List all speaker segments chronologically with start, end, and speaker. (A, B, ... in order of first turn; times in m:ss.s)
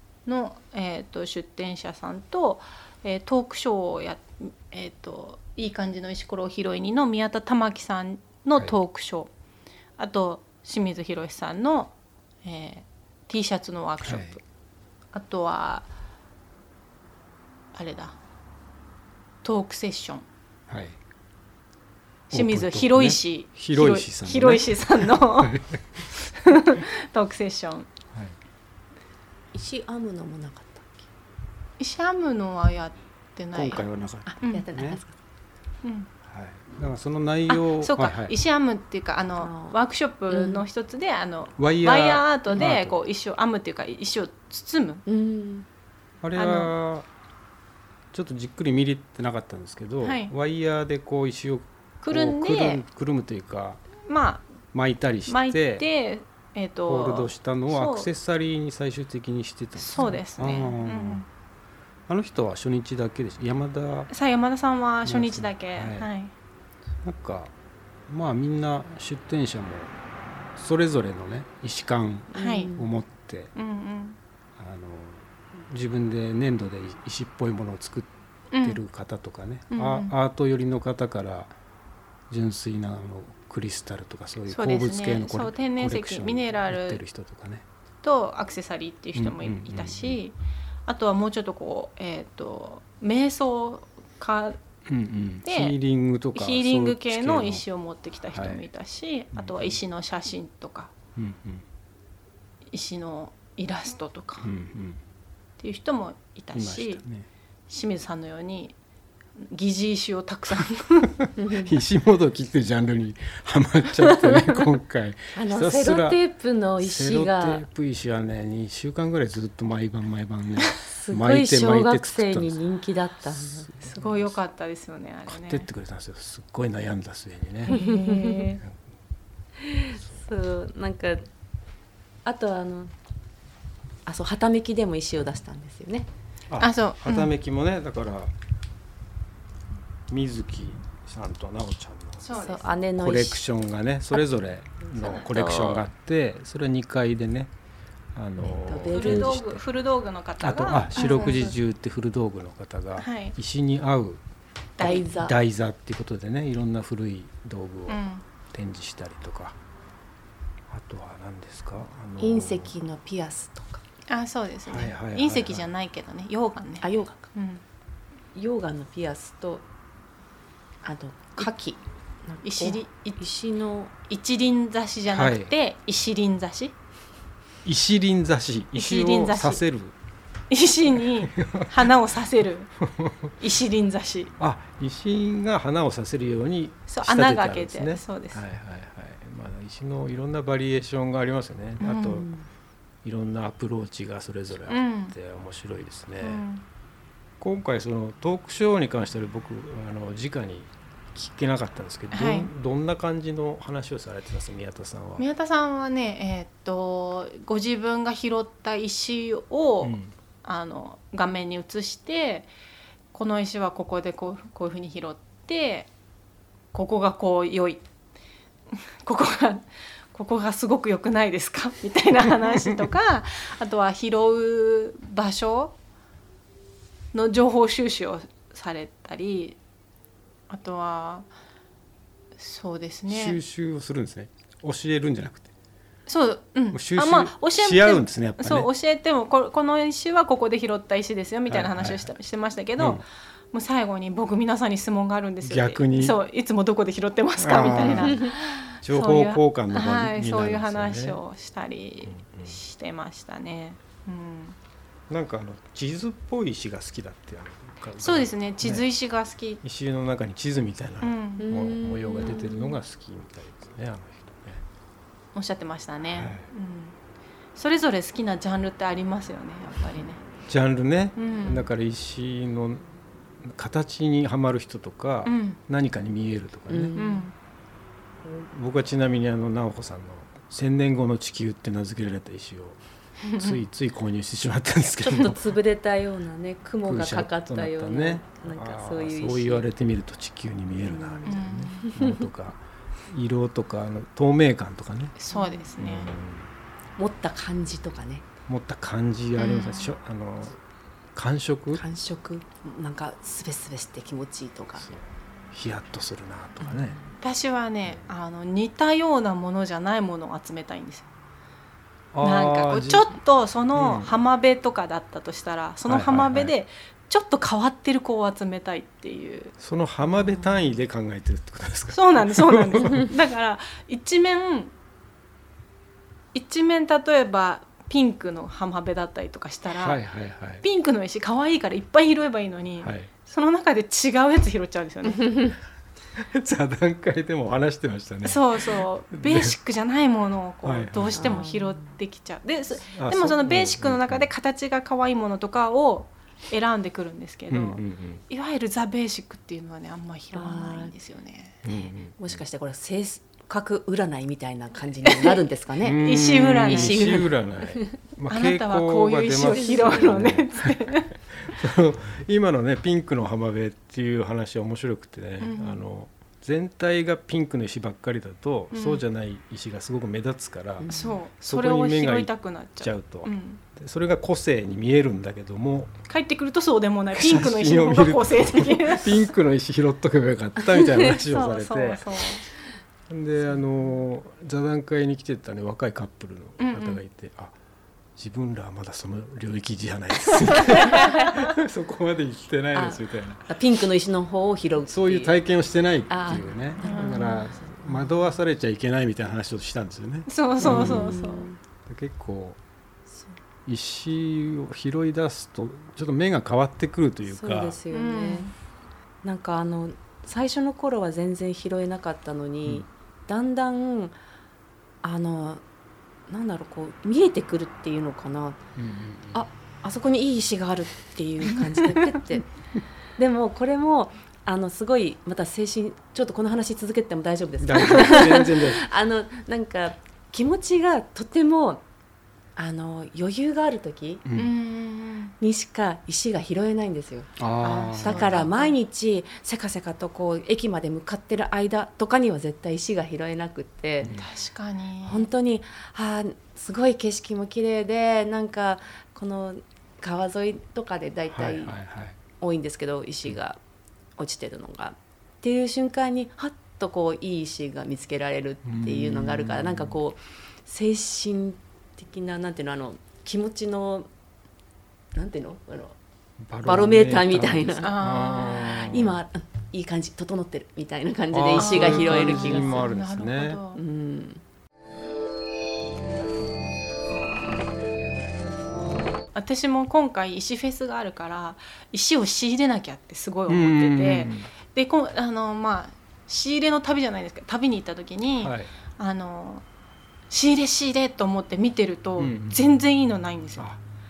0:00.2-0:09.3 A
0:10.0-0:11.9 A
0:12.4-0:14.4 A
0:14.0-0:14.4 B
0:15.1-0:15.9 A
0:17.7-0:18.2 A
0:19.4-0:20.2 A
0:20.7-0:21.0 B
0:22.3-0:25.6 A
0:22.3-0:26.0 B
0:26.2-0:27.9 A
0:29.5-0:31.0 C
0:31.8-0:33.9 A
0:33.5-0:35.0 B
0:34.2-0:35.1 C
0:35.8-0:36.1 A
0:36.2-0:38.3 B
0:37.5-0:45.0 A
0:39.4-0:39.7 C
0:40.3-0:40.6 C
0:41.6-0:43.0 B
0:45.0-0:45.6 C
0:46.2-0:47.1 B
0:46.3-0:46.7 A
0:48.1-0:53.8 B
0:50.0-0:50.3 A
0:52.0-0:52.8 A
0:54.0-0:54.5 A
0:54.7-0:55.8 B
0:55.3-0:58.1 A
0:56.8-1:01.2 B
0:59.8-1:01.2 A
1:02.1-1:04.1 B
1:04.1-1:06.3 A
1:05.0-1:06.1 B
1:07.0-1:07.5 B
1:08.1-1:09.9 B
1:10.5-1:13.5 B
1:12.3-1:12.8 C
1:12.3-1:12.8 A
1:13.5-1:14.2 A
1:14.6-1:21.5 B
1:18.5-1:18.8 A
1:19.7-1:20.1 A
1:22.3-1:27.6 B
1:24.5-1:27.0 A
1:28.0-1:30.3 A
1:29.1-1:30.2 B
1:30.9-1:34.6 A
1:34.9-1:37.6 B
1:35.4-1:35.8 A
1:36.3-1:40.9 A
1:38.3-1:38.6 B
1:39.3-1:39.8 B
1:41.2-1:41.6 B
1:42.7-1:44.5 A
1:44.4-1:45.0 B
1:45.6-1:47.0 A
1:46.5-1:47.3 B
1:47.7-1:48.7 A
1:49.5-1:51.2 A
1:51.0-1:56.2 B
1:51.4-1:51.7 C
1:55.3-1:57.7 C
1:56.8-2:02.6 B
2:00.9-2:03.7 C
2:03.3-2:04.4 B
2:03.8-2:05.7 A
2:05.3-2:07.8 B
2:07.7-2:08.6 A
2:07.7-2:08.4 C
2:09.6-2:11.2 C
2:12.2-2:12.9 C
2:14.0-2:16.1 C
2:16.5-2:18.3 B
2:16.6-2:17.3 A
2:20.1-2:22.3 B
2:22.2-2:22.7 A
2:22.3-2:23.4 C
2:23.0-2:27.5 B
2:24.1-2:24.4 C
2:25.0-2:25.8 C
2:28.1-2:29.6 B
2:28.4-2:29.4 C
2:28.9-2:31.5 A
2:30.4-2:34.2 B
2:33.0-2:33.4 A
2:34.8-2:35.0 A
2:34.8-2:35.4 C
2:34.8-2:39.6 B
2:37.9-2:38.2 A
2:40.7-2:42.7 B
2:42.2-2:43.8 C
2:44.1-2:47.6 A
2:44.6-2:45.7 B
2:46.8-2:47.2 C
2:48.3-2:49.6 C
2:50.8-2:53.9 C
2:52.4-2:53.2 A
2:54.0-2:56.7 A
2:55.1-2:55.5 B
2:57.6-2:59.9 B
2:58.8-2:59.6 A
3:00.5-3:02.7 A
3:01.2-3:01.8 B
3:02.8-3:03.3 B
3:03.4-3:04.3 A
3:04.4-3:12.3 B
3:06.9-3:08.4 A
3:11.8-3:12.3 A
3:13.0-3:16.4 B
3:14.7-3:15.1 A
3:16.2-3:16.6 A
3:17.4-3:25.2 B
3:22.1-3:22.5 A
3:25.2-3:32.5 A
3:29.8-3:30.1 B
3:33.1-3:35.9 A
3:36.7-3:37.8 A
3:38.8-3:45.7 A
3:47.1-3:49.6 A
3:50.5-3:51.3 A
3:52.4-3:53.4 A
3:53.1-3:55.5 B
3:56.1-4:14.6 A
3:56.7-3:58.7 B
4:01.5-4:02.1 B
4:02.8-4:03.0 B
4:05.4-4:06.2 B
4:07.4-4:11.2 B
4:12.0-4:12.6 B
4:15.1-4:18.8 B
4:18.0-4:19.6 A
4:19.6-4:24.6 B
4:21.0-4:21.5 A
4:21.4-4:22.8 C
4:25.3-4:27.0 A
4:26.1-4:26.4 B
4:27.6-4:30.2 A
4:30.5-4:32.9 B
4:31.2-4:31.7 A
4:33.4-4:36.9 B
4:35.2-4:35.6 A
4:36.7-4:37.3 C
4:36.9-4:37.3 A
4:38.2-4:42.8 B
4:43.2-4:43.6 A
4:43.4-4:45.5 B
4:45.1-4:49.7 C
4:46.8-4:55.1 B
4:50.8-4:52.2 C
4:51.2-4:51.9 A
4:55.2-4:56.1 A
4:55.3-4:55.6 C
4:55.8-4:56.5 B
4:57.0-4:58.2 C
4:58.5-5:00.6 B
4:59.4-4:59.9 A
5:01.1-5:01.8 B
5:01.7-5:04.9 C
5:04.8-5:07.0 B
5:07.2-5:11.0 A
5:12.1-5:13.1 B
5:12.2-5:19.5 A
5:13.7-5:14.1 B
5:15.8-5:16.5 B
5:19.6-5:23.1 B
5:21.9-5:24.7 A
5:26.3-5:30.0 A
5:29.7-5:30.6 B
5:30.6-5:35.6 A
5:32.8-5:33.1 B
5:36.2-5:39.5 B
5:38.2-5:51.6 A
5:40.6-5:41.4 B
5:41.2-5:41.9 C
5:42.9-5:44.3 B
5:47.5-5:48.2 B
5:50.3-5:50.9 C
5:51.6-5:52.4 B
5:51.7-5:58.0 C
5:55.1-5:55.4 A
5:55.8-6:00.8 B
5:56.0-5:57.2 A
5:58.3-6:01.1 A
5:59.5-6:00.2 C
6:01.3-6:15.9 B
6:05.4-6:05.8 A
6:08.7-6:09.0 A
6:10.8-6:11.2 C
6:10.9-6:13.6 A
6:16.1-6:19.3 A
6:17.1-6:22.2 B
6:21.2-6:22.4 A
6:23.1-6:27.5 B
6:26.6-6:27.0 A
6:28.2-6:33.4 B
6:30.3-6:31.4 A
6:30.9-6:31.2 C
6:32.7-6:35.3 C
6:34.9-6:41.2 B
6:36.1-6:38.2 C
6:36.8-6:37.4 A
6:40.3-6:41.5 A
6:40.6-6:41.6 C
6:41.8-6:42.6 B
6:43.6-6:47.8 B
6:47.2-6:48.5 C
6:47.9-6:48.5 A
6:49.2-6:54.2 C
6:55.0-6:55.6 C
6:56.3-6:58.6 C
6:58.8-6:59.4 B
6:59.3-7:02.5 C
7:03.2-7:11.8 C
7:07.6-7:08.8 B
7:12.6-7:14.2 C
7:14.2-7:14.5 B
7:14.3-7:15.4 A
7:15.4-7:24.2 C
7:17.4-7:18.5 B
7:17.6-7:18.7 A
7:24.0-7:24.3 B
7:24.1-7:25.3 A
7:25.0-7:31.8 C
7:31.3-7:32.2 B
7:32.4-7:33.6 C
7:34.2-7:44.1 C
7:38.6-7:40.0 B
7:45.1-7:46.0 C
7:46.4-7:49.2 B
7:46.6-7:52.9 C
7:47.8-7:48.9 A
7:51.3-7:53.6 B
7:51.6-7:53.8 A
7:53.7-7:54.4 C
7:59.3-8:09.6 A
8:03.5-8:04.5 B
8:08.4-8:08.7 B
8:10.3-8:13.7 A
8:12.2-8:12.8 B